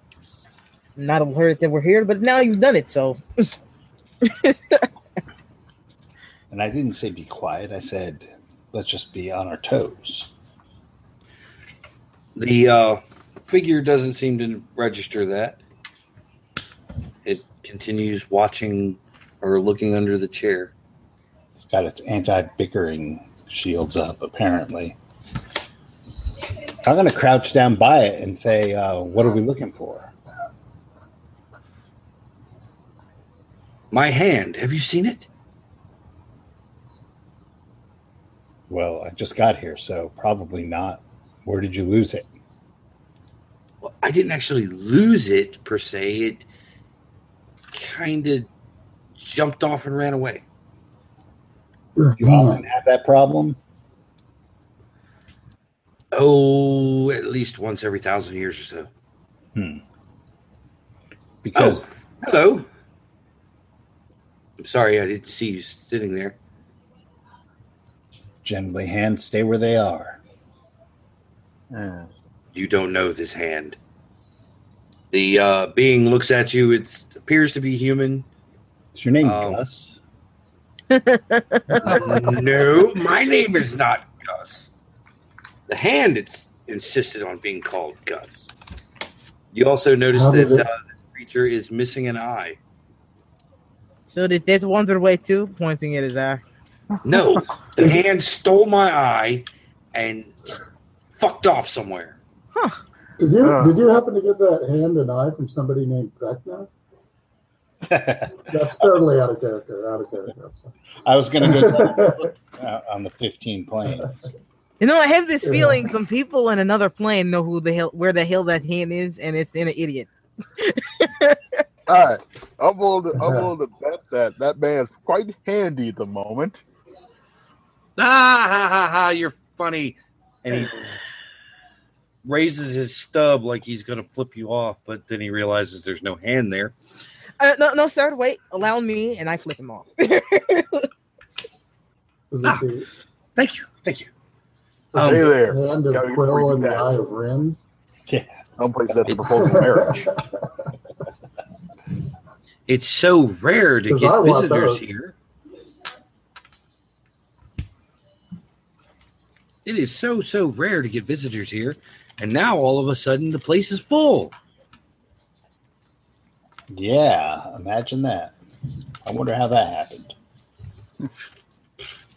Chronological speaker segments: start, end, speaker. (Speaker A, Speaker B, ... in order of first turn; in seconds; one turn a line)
Speaker A: 1.0-3.5
Speaker A: 4.2-4.9
Speaker B: 6.5-10.3
Speaker C: 12.3-15.6
Speaker C: 17.2-20.7
Speaker B: 21.5-25.0
Speaker B: 26.8-30.1
Speaker C: 33.9-35.3
Speaker B: 38.7-42.3
Speaker C: 43.8-46.5
Speaker C: 47.7-48.5
Speaker C: 49.2-50.4
Speaker D: 52.0-52.6
Speaker B: 52.2-53.6
Speaker C: 56.1-58.9
Speaker B: 59.5-59.8
Speaker B: 61.4-61.8
Speaker C: 61.5-62.7
Speaker C: 64.6-66.3
Speaker B: 68.4-70.2
Speaker E: 71.7-72.1
Speaker C: 72.5-73.8
Speaker C: 75.1-78.2
Speaker B: 78.9-80.0
Speaker C: 79.2-79.6
Speaker A: 80.9-81.9
Speaker C: 81.8-84.7
Speaker E: 81.8-82.4
Speaker C: 85.7-88.5
Speaker C: 89.5-92.6
Speaker D: 90.1-90.7
Speaker A: 94.1-96.4
Speaker C: 97.0-100.5
Speaker C: 101.2-102.2
Speaker D: 103.2-106.7
Speaker E: 103.4-103.8
Speaker B: 107.8-108.5
Speaker D: 108.4-110.7
Speaker B: 111.0-114.2
Speaker D: 111.4-112.3
Speaker A: 114.8-121.4
Speaker D: 115.4-115.9
Speaker E: 121.9-126.6
Speaker D: 123.2-123.5
Speaker C: 128.0-130.9
Speaker C: 132.2-136.7
Speaker A: 137.4-140.9
Speaker D: 142.3-142.9
Speaker C: 143.4-144.1
Speaker C: 144.9-145.3
Speaker D: 144.9-147.6
Speaker E: 145.0-147.0
Speaker B: 148.1-148.4
Speaker E: 148.6-150.1
Speaker D: 149.3-150.4
Speaker C: 152.7-155.1
Speaker D: 153.9-154.8
Speaker C: 159.6-164.3
Speaker B: 166.7-168.3
Speaker B: 169.0-170.1